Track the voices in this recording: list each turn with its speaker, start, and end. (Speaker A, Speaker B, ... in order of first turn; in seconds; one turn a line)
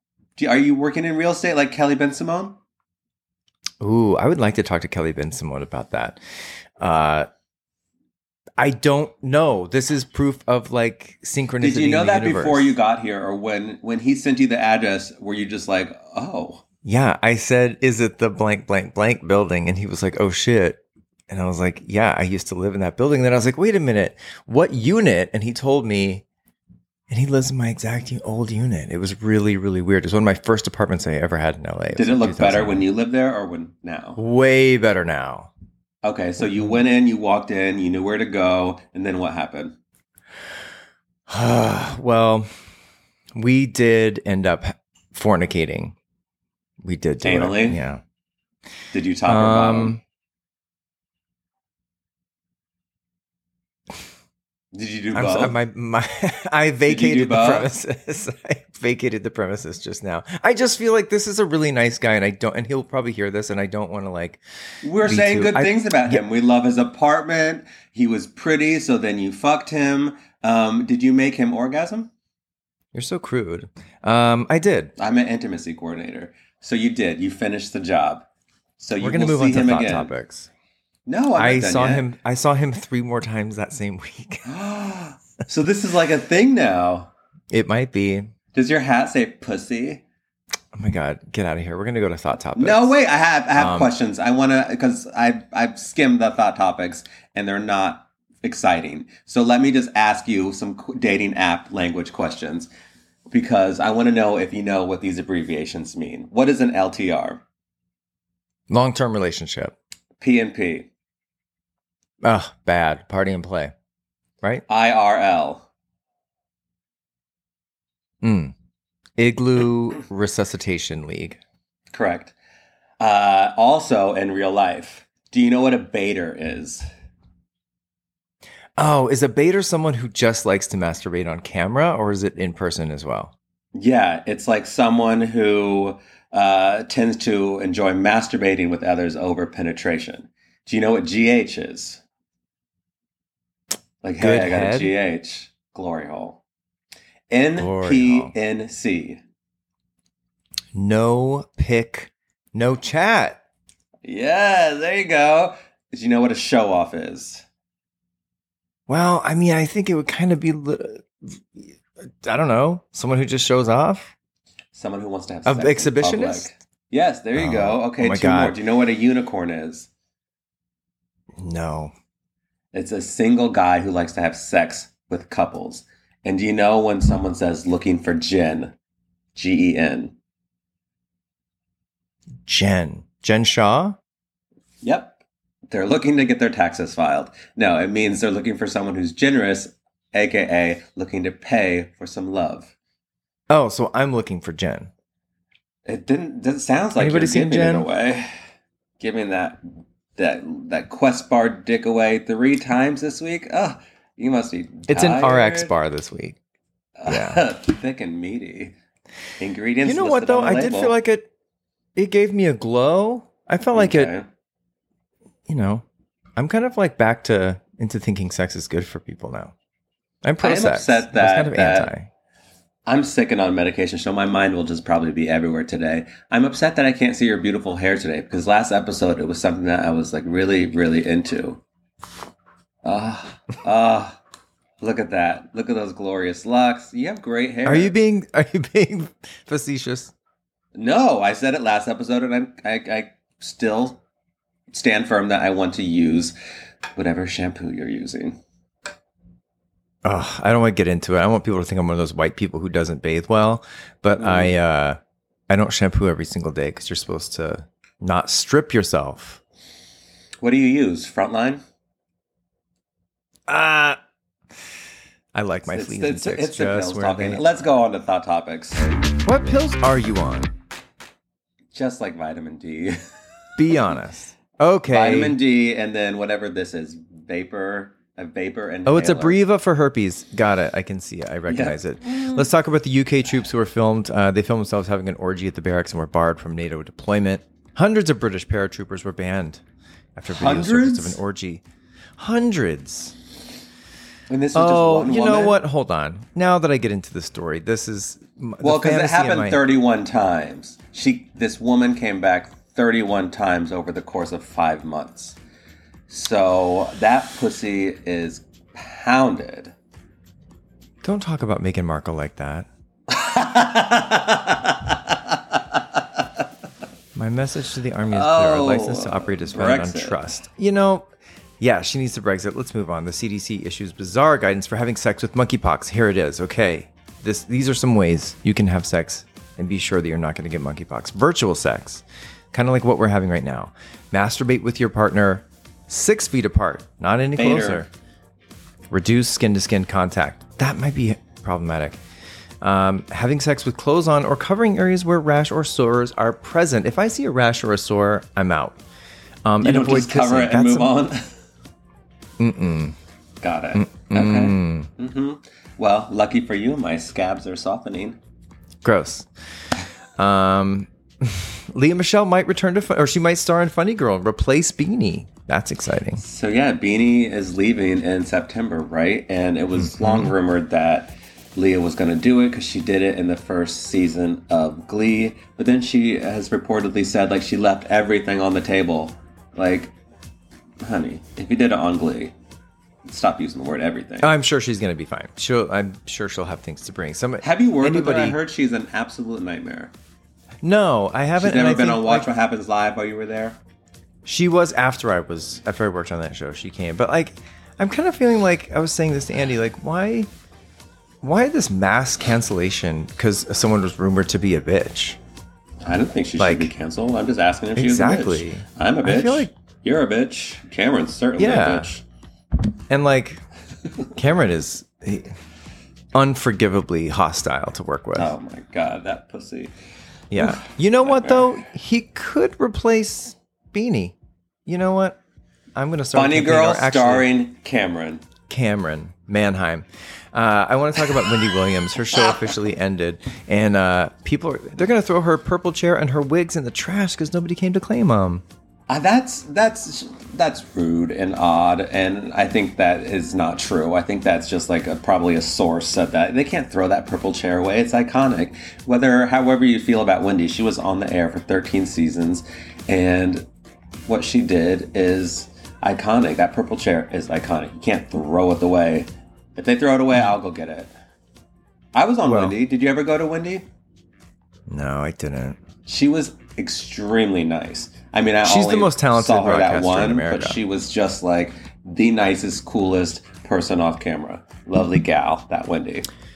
Speaker A: 0.4-2.6
Speaker B: 3.8-6.2
Speaker B: 6.8-7.3
Speaker B: 8.6-12.7
Speaker A: 11.6-16.6
Speaker B: 16.8-26.2
Speaker B: 27.1-32.8
Speaker A: 31.9-34.2
Speaker B: 34.2-35.5
Speaker A: 36.0-39.8
Speaker B: 41.3-42.5
Speaker B: 43.3-45.9
Speaker B: 46.8-48.0
Speaker A: 47.2-47.8
Speaker A: 48.9-50.0
Speaker B: 49.3-50.0
Speaker A: 54.7-55.5
Speaker B: 55.1-64.4
Speaker A: 56.9-57.7
Speaker A: 64.8-72.1
Speaker B: 65.0-66.2
Speaker B: 72.9-74.9
Speaker A: 75.0-78.2
Speaker A: 78.8-80.1
Speaker B: 79.0-80.5
Speaker A: 81.1-82.0
Speaker B: 81.3-84.4
Speaker A: 84.4-87.1
Speaker B: 87.5-88.3
Speaker A: 88.5-90.0
Speaker B: 90.7-92.9
Speaker A: 92.5-102.7
Speaker B: 93.5-93.9
Speaker A: 103.3-107.4
Speaker B: 108.7-109.7
Speaker A: 110.2-110.9
Speaker B: 112.2-113.7
Speaker A: 114.7-115.7
Speaker B: 118.2-118.5
Speaker B: 119.2-121.4
Speaker A: 121.9-122.3
Speaker A: 123.0-126.8
Speaker B: 128.8-133.3
Speaker A: 133.7-142.0
Speaker A: 144.0-146.4
Speaker B: 144.2-144.9
Speaker A: 147.3-149.2
Speaker B: 147.6-148.3
Speaker B: 150.7-153.4
Speaker A: 154.0-157.4
Speaker B: 158.9-164.1
Speaker A: 164.7-169.9
Speaker B: 165.4-166.5
Speaker B: 167.3-168.6
Speaker B: 171.4-171.9
Speaker A: 172.7-178.7
Speaker A: 179.3-180.1
Speaker B: 182.4-184.0
Speaker A: 184.8-185.2
Speaker A: 185.7-192.7
Speaker B: 193.5-194.9
Speaker A: 195.8-198.3
Speaker B: 197.0-197.9
Speaker A: 199.0-199.6
Speaker A: 200.2-205.7
Speaker B: 204.9-206.4
Speaker A: 207.0-208.7
Speaker B: 207.1-207.4
Speaker A: 209.4-210.9
Speaker B: 209.8-211.3
Speaker B: 211.9-214.1
Speaker A: 213.7-214.3
Speaker B: 215.5-215.8
Speaker B: 216.4-219.5
Speaker B: 220.2-222.1
Speaker A: 220.4-221.9
Speaker A: 222.8-231.6
Speaker A: 232.8-234.2
Speaker A: 234.8-237.9
Speaker B: 237.6-240.1
Speaker A: 240.7-244.0
Speaker A: 244.7-246.3
Speaker A: 246.9-248.4
Speaker B: 250.0-259.4
Speaker A: 254.2-254.5
Speaker A: 260.4-261.6
Speaker B: 263.5-264.0
Speaker B: 265.3-267.5
Speaker A: 265.7-269.0
Speaker B: 269.2-270.5
Speaker A: 271.7-273.0
Speaker B: 273.6-275.4
Speaker A: 274.9-279.4
Speaker B: 278.9-289.6
Speaker A: 281.5-282.5
Speaker B: 290.1-291.6
Speaker A: 290.3-291.2
Speaker B: 292.2-293.1
Speaker A: 294.3-295.6
Speaker B: 294.5-299.6
Speaker A: 298.6-305.4
Speaker A: 306.1-309.7
Speaker B: 311.0-312.7
Speaker A: 313.1-316.0
Speaker B: 317.1-337.9
Speaker A: 318.1-320.2
Speaker A: 337.4-337.9
Speaker B: 338.9-342.0
Speaker B: 342.6-348.8
Speaker B: 349.4-350.9
Speaker A: 349.6-351.3
Speaker B: 352.4-352.9
Speaker A: 353.4-358.2
Speaker B: 353.7-354.9
Speaker B: 358.8-359.3
Speaker B: 360.2-366.2
Speaker A: 366.2-379.9
Speaker B: 369.9-370.3
Speaker A: 380.8-382.3
Speaker A: 383.0-384.3
Speaker B: 384.2-388.4
Speaker A: 387.4-389.9
Speaker B: 390.6-392.3
Speaker A: 391.4-393.6
Speaker B: 394.2-400.3
Speaker B: 401.2-405.2
Speaker A: 405.8-412.0
Speaker B: 406.4-406.7
Speaker B: 407.8-409.5
Speaker B: 411.4-411.9
Speaker B: 412.9-413.4
Speaker B: 414.1-415.3
Speaker B: 416.1-418.3
Speaker A: 418.1-419.7
Speaker B: 420.3-424.1
Speaker A: 420.4-421.5
Speaker B: 424.6-425.2
Speaker B: 425.8-427.3
Speaker A: 426.1-428.2
Speaker B: 428.5-438.4
Speaker A: 438.9-453.5
Speaker A: 454.1-460.9
Speaker A: 461.9-463.6
Speaker B: 462.2-462.5
Speaker B: 464.7-465.6
Speaker A: 465.9-476.1
Speaker B: 468.4-470.6